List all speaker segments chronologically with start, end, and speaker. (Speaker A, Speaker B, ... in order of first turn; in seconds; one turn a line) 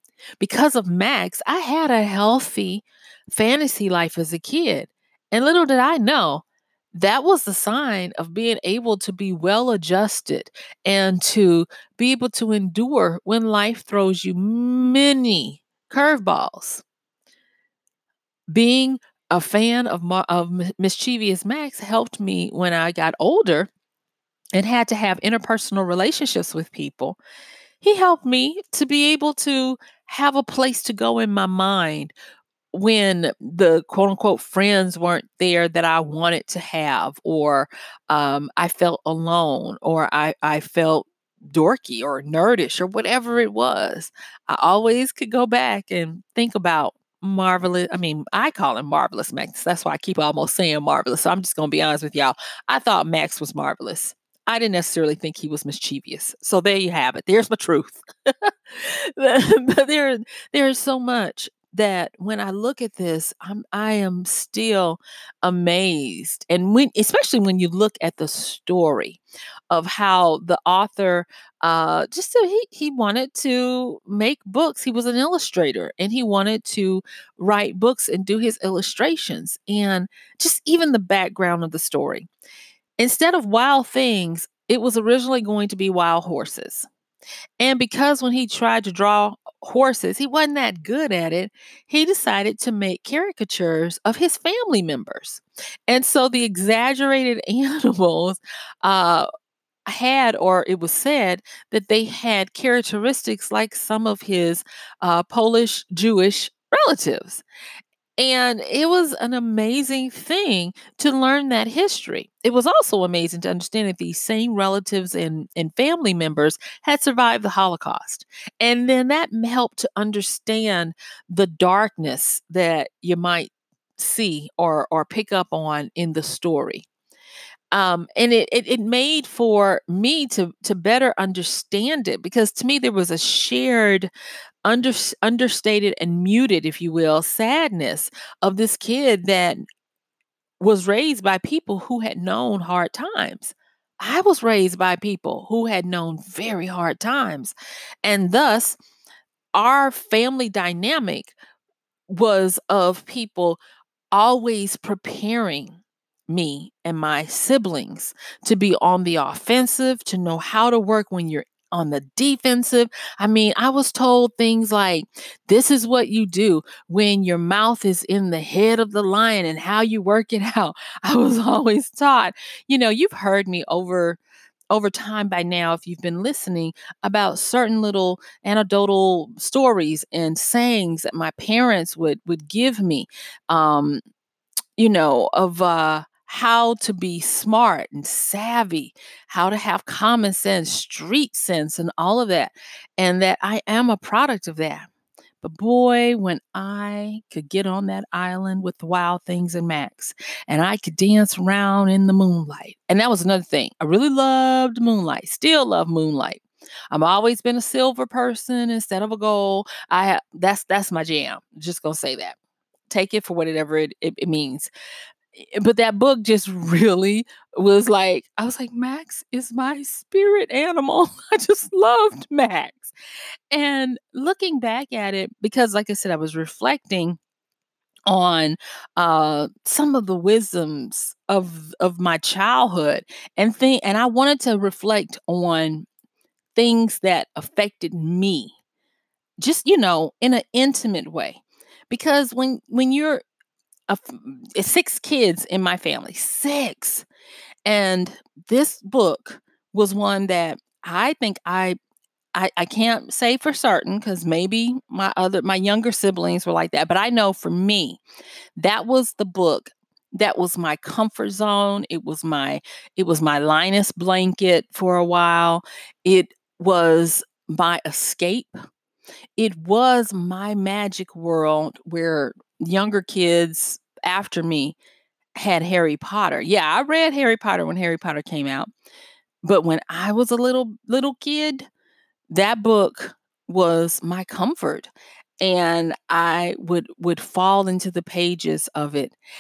Speaker A: 0.4-16.8
Speaker A: 18.5-23.7
Speaker A: 24.6-27.2
Speaker A: 27.8-32.1
Speaker A: 32.7-82.3
Speaker A: 83.0-86.9
Speaker A: 87.6-99.3
Speaker A: 99.9-107.4
Speaker A: 108.2-126.9
Speaker A: 127.7-134.1
Speaker A: 134.7-139.6
Speaker A: 140.6-148.8
Speaker A: 149.6-151.3
Speaker A: 152.1-153.6
Speaker A: 154.1-174.2
Speaker A: 174.7-184.0
Speaker A: 184.8-194.9
Speaker A: 195.4-212.4
Speaker A: 212.9-214.7
Speaker A: 215.3-222.9
Speaker A: 223.5-227.2
Speaker A: 228.1-235.9
Speaker A: 236.6-238.6
Speaker A: 239.4-243.2
Speaker A: 243.9-247.1
Speaker A: 247.7-251.8
Speaker A: 252.3-258.0
Speaker A: 258.6-268.5
Speaker A: 269.4-274.8
Speaker A: 275.4-278.7
Speaker A: 279.4-281.7
Speaker A: 282.3-289.2